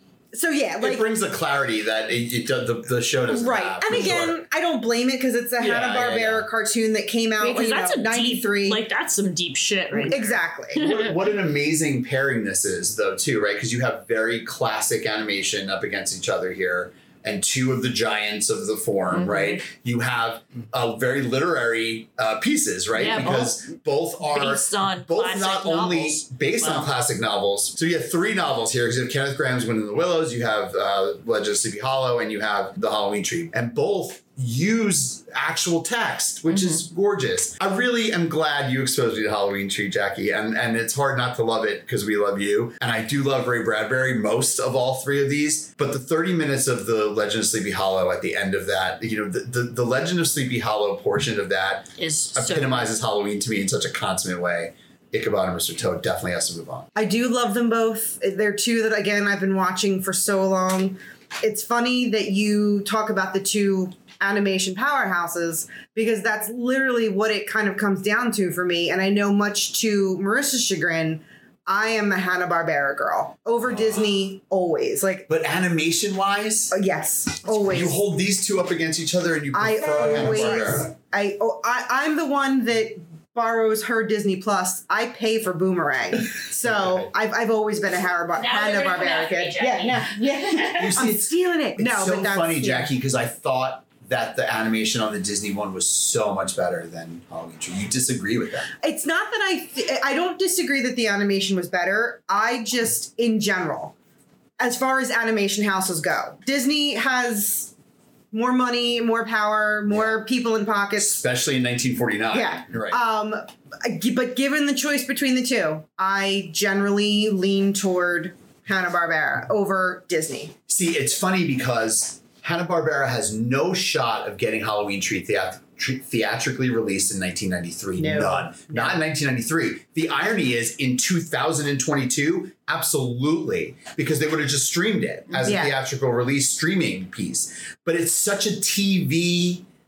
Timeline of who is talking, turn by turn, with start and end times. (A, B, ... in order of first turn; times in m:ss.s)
0:00.3-0:01.1 A
0:00.8-0:04.4 B
0:03.3-0:08.8 A
0:05.6-0:06.5 B
0:07.4-0:11.1 C
0:10.0-0:10.8 A
0:10.7-0:56.9 B
0:19.1-0:19.6 C
0:22.9-0:23.6 C
0:24.2-0:26.9 C
0:36.5-0:36.8 C
0:52.0-0:52.9 C
0:57.0-1:15.3 A
1:13.7-1:14.1 B
1:15.3-1:16.7 B
1:16.7-1:17.9 A
1:17.5-1:20.9 B
1:19.5-1:32.9 A
1:26.6-1:27.1 B
1:28.4-1:31.0 C
1:30.7-1:38.7 B
1:38.8-1:43.9 A
1:44.6-1:47.7 A
1:48.3-1:51.2 A
1:49.9-1:50.2 B
1:51.0-1:53.0 B
1:52.3-2:00.5 A
2:00.7-2:19.6 B
2:08.0-2:09.0 A
2:15.4-2:15.7 A